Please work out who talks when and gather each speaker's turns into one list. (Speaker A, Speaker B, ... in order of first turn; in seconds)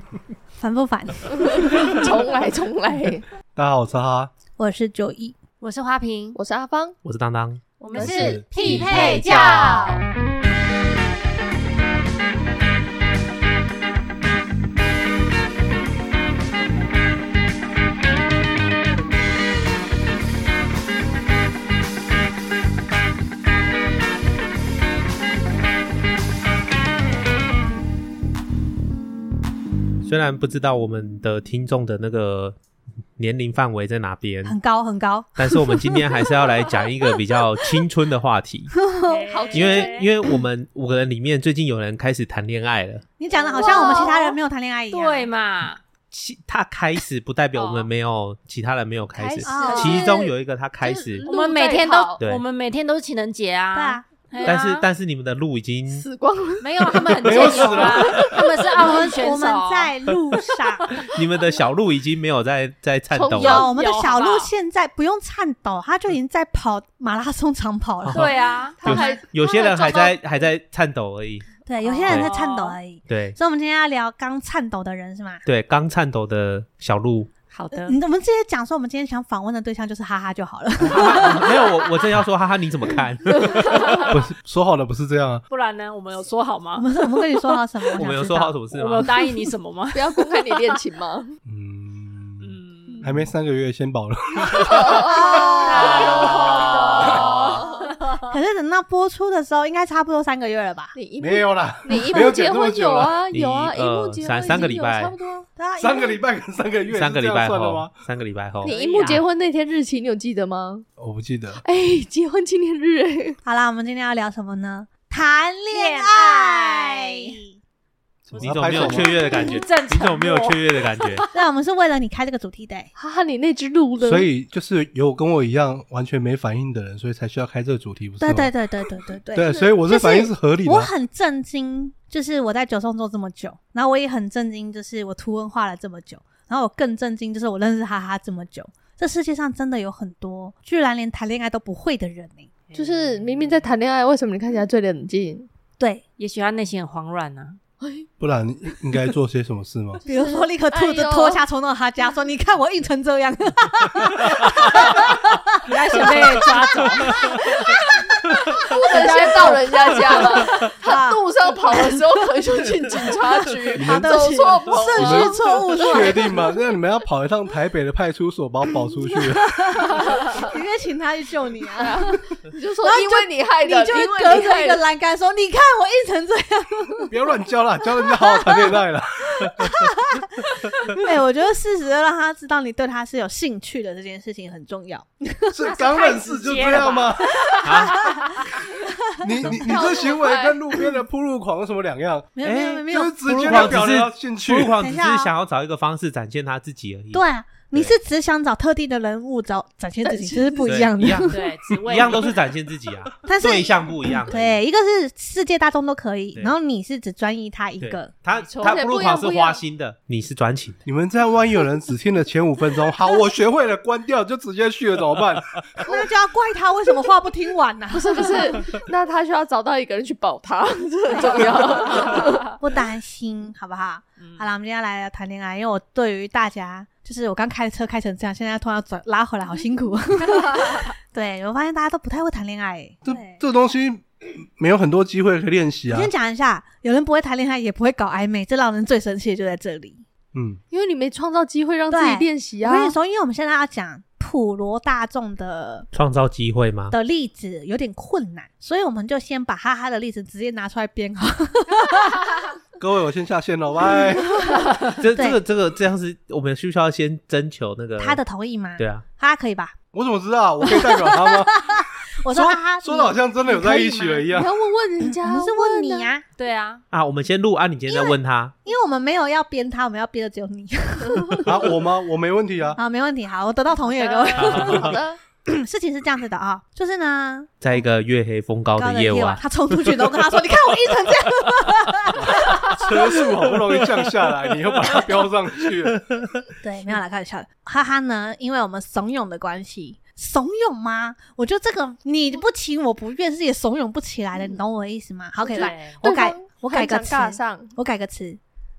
Speaker A: 0.6-1.9, 4.6-5.3, 34.4-36.1, 38.7-39.9, 43.2-45.3, 49.4-50.3, 53.7-54.0, 57.0-57.7, 58.7-60.9, 63.3-70.1, 71.7-75.4, 77.7-81.6, 86.8-88.5, 94.9-96.8, 98.2-100.9, 105.6-106.2, 113.4-117.5, 121.3-122.9, 128.2-142.5, 145.8-146.0, 150.1-162.1, 163.8-166.3, 169.1-172.2, 172.8-177.1, 178.1-178.8, 179.4-186.3, 187.6-188.5, 192.3-193.7, 194.8-195.3, 197.1-201.4, 203.2-208.1, 215.8-218.6, 221.1-233.4, 235.9-240.0, 241.9-245.9, 246.9-252.5, 255.1-255.4, 258.0-259.8, 260.6-264.3, 265.0-266.2, 267.9-271.8, 272.7-277.6, 278.8-282.9, 286.6-298.4
Speaker B: 1.3-3.2, 6.3-7.0, 8.0-8.3, 8.9-9.2, 39.3-39.9, 43.5-44.2, 49.6-50.1, 51.2-52.1, 55.9-59.1, 63.2-63.6, 68.7-69.6, 89.9-91.4, 94.6-97.9, 100.9-105.5, 108.6-110.8, 111.6-113.4, 123.0-124.3, 142.7-145.5, 147.8-148.1, 150.0-151.4, 158.6-166.3, 171.8-174.8, 189.5-190.6, 200.0-200.7, 208.6-209.6, 217.9-222.6, 240.7-243.0, 264.3-266.1, 273.9-275.2, 295.4-297.7
Speaker C: 3.5-4.3, 7.9-9.9, 57.1-58.4, 84.0-85.5, 91.5-95.0, 96.0-97.6, 101.2-103.2, 105.8-107.9, 111.0-111.6, 118.3-119.2, 124.0-128.5, 129.3-130.9, 148.2-150.0, 163.7-164.2, 164.9-169.7, 177.1-180.0, 185.5-187.3, 189.2-194.8, 210.8-215.8, 233.0-236.1, 240.3-240.6, 252.8-254.7, 259.9-264.5, 271.4-272.8, 282.2-286.1
Speaker D: 5.6-6.4, 7.8-10.0, 39.1-40.1, 43.3-44.4, 44.9-45.8, 47.5-47.9, 49.1-50.3, 50.8-54.9, 56.6-60.0, 63.3-64.5, 68.1-69.1, 71.8-72.8, 77.5-77.9, 83.5-84.2, 85.5-86.9, 88.7-90.6, 92.4-93.2, 94.7-98.3, 108.6-109.2, 115.7-117.4, 118.3-121.3, 142.7-143.2, 146.2-147.6, 155.6-157.6, 185.8-188.7, 201.2-202.4, 208.3-209.1, 221.8-222.5, 224.2-224.5, 230.3-230.7, 266.4-266.8, 295.4-296.0
Speaker E: 7.0-7.6, 8.6-9.7, 30.0-32.5, 33.2-34.5, 35.4-38.7, 39.5-43.0, 46.1-51.3, 54.4-56.0, 60.9-63.7, 68.0-68.3, 68.8-71.5, 72.0-72.3, 73.1-73.4, 75.4-77.3, 80.8-84.1, 88.0-89.1, 103.3-105.1, 106.9-109.2, 118.3-121.2, 187.6-188.1, 192.4-197.9, 200.6-204.6, 207.8-210.8, 245.9-246.9, 255.0-258.2, 258.8-259.0, 266.9-268.5, 274.4-275.0, 277.6-279.9, 282.9-283.7, 286.1-286.4